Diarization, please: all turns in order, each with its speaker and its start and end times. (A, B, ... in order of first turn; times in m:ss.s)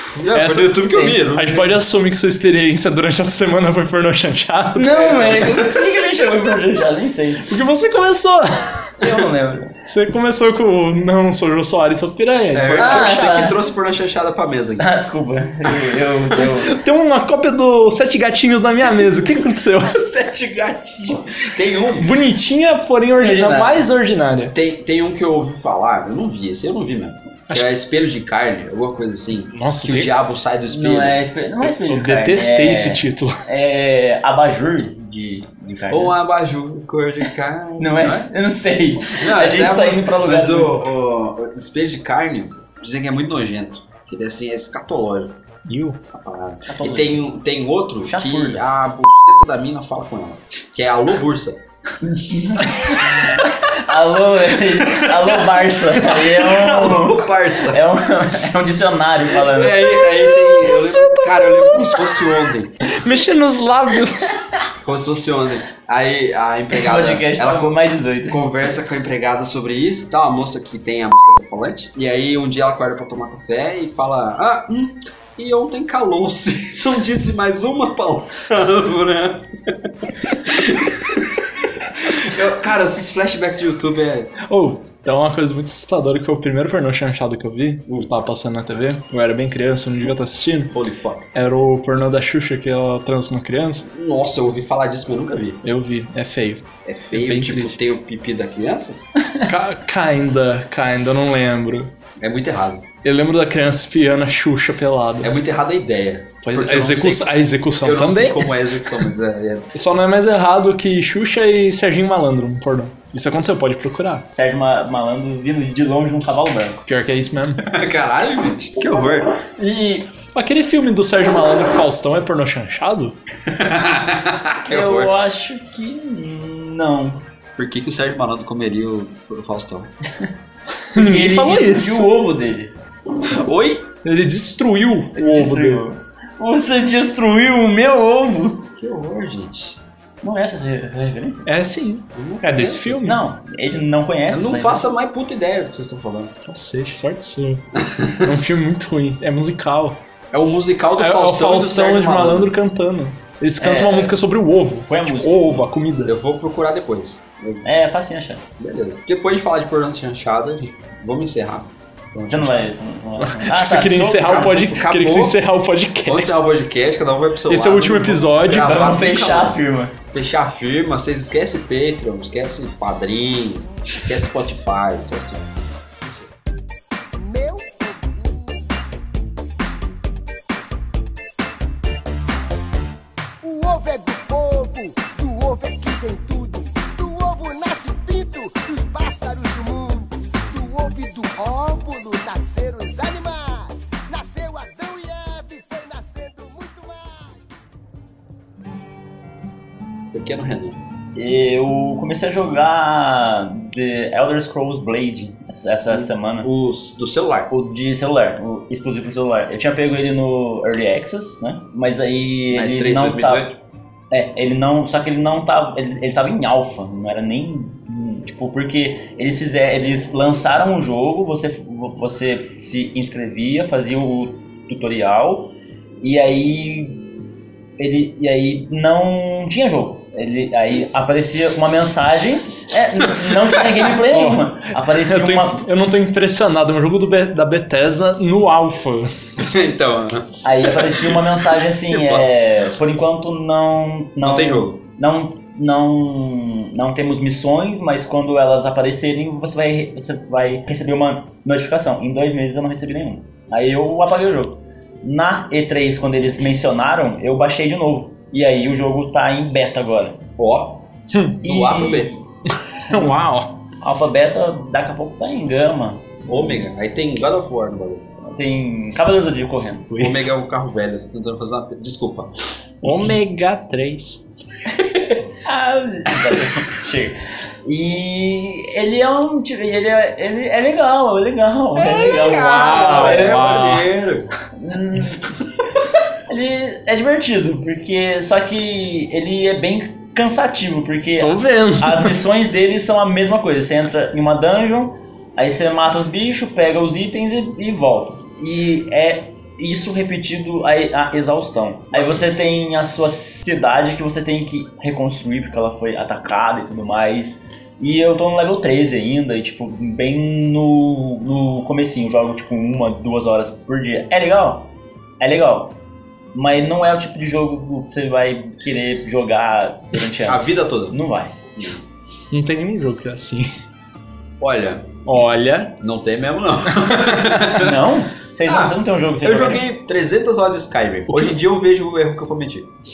0:00.1-0:01.8 A
0:00.3-0:05.2 B
0:04.8-0:07.5 C
0:04.9-0:05.9 A
0:07.5-0:09.0 B
0:09.0-0:09.7 C
0:09.8-0:13.6 B
0:12.5-0:14.9 A
0:12.8-0:13.6 C
0:14.8-0:16.8 C
0:16.4-0:20.1 B
0:20.0-0:22.1 A
0:22.0-0:24.6 B
0:23.2-0:23.8 C
0:24.5-0:31.2 A
0:29.5-0:30.2 B
0:30.7-0:36.2 C
0:31.6-0:33.4 B
0:35.9-0:38.3 A
0:37.8-0:40.8 C
0:39.0-0:45.4 A
0:45.7-0:46.0 B
0:46.1-0:51.6 A
0:46.7-0:47.2 C
0:48.1-0:48.6 C
0:52.0-1:00.0 C
0:53.0-0:53.3 A
0:56.3-0:57.8 A
0:59.4-1:02.8 A
1:00.0-1:04.6 B
1:04.8-1:24.4 A
1:06.7-1:08.4 C
1:24.4-1:30.8 B
1:30.7-1:31.3 A
1:31.3-1:33.9 B
1:33.9-1:35.6 A
1:35.6-1:37.8 B
1:36.8-1:39.0 A
1:39.5-1:41.9 B
1:42.2-1:42.9 A
1:43.0-1:45.4 B
1:45.2-1:49.7 A
1:46.4-1:49.0 B
1:49.7-1:54.3 B
1:54.3-1:56.8 C
1:56.9-1:57.6 B
1:57.6-1:59.4 A
1:59.6-2:00.0 C
2:00.3-2:03.2 B
2:03.5-2:05.1 A
2:04.7-2:07.2 C
2:07.6-2:09.9 A
2:10.9-2:12.1 B
2:10.9-2:12.7 C
2:13.2-2:13.9 A
2:14.0-2:15.8 B
2:15.2-2:18.6 C
2:18.8-2:19.8 A
2:20.2-2:21.5 C
2:21.5-2:23.2 B
2:22.2-2:23.0 A
2:23.0-2:24.9 C
2:24.3-2:26.3 A
2:26.5-2:27.6 B
2:27.8-2:28.3 A
2:28.2-2:30.0 B
2:30.3-2:32.6 A
2:31.0-2:36.1 B
2:33.6-2:34.2 C
2:34.9-2:35.6 C
2:36.0-2:37.7 A
2:37.6-2:38.4 C
2:38.6-2:42.7 A
2:42.3-2:44.6 C
2:43.2-2:46.4 B
2:44.0-2:45.4 A
2:46.0-2:55.5 A
2:47.5-2:49.0 B
2:48.6-2:49.9 C
2:57.1-2:58.8 D
3:03.4-3:17.4 D
3:20.1-3:20.8 A
3:21.2-3:26.5 C
3:25.9-3:27.5 A
3:27.5-3:33.5 C
3:32.5-3:33.6 A
3:34.1-3:47.0 C
3:47.8-3:55.6 C
3:54.1-3:59.4 B
3:59.4-4:01.2 A
4:00.4-4:20.2 C
4:01.9-4:02.4 A
4:04.2-4:04.8 A
4:20.4-4:20.9 A
4:21.1-4:21.4 B
4:21.4-4:22.2 A
4:21.4-4:22.2 C
4:22.9-4:23.6 B
4:23.8-4:26.6 C
4:26.3-4:28.1 A
4:28.2-4:29.9 C
4:29.9-4:30.3 B
4:30.0-4:32.3 A
4:32.8-4:34.2 B
4:34.8-4:43.5 C
4:41.8-4:44.3 A
4:42.2-4:43.9 B
4:44.6-4:45.2 C
4:46.3-5:15.8 C
4:51.2-4:52.2 B
5:01.9-5:02.3 A
5:16.3-5:21.4 C
5:20.2-5:21.0 A
5:21.6-5:21.8 A
5:22.3-5:23.5 B
5:24.4-5:25.0 A
5:25.0-5:25.8 B
5:25.8-5:27.9 A
5:26.8-5:27.2 B
5:27.5-5:29.6 C
5:28.4-5:32.7 A
5:31.1-5:31.4 B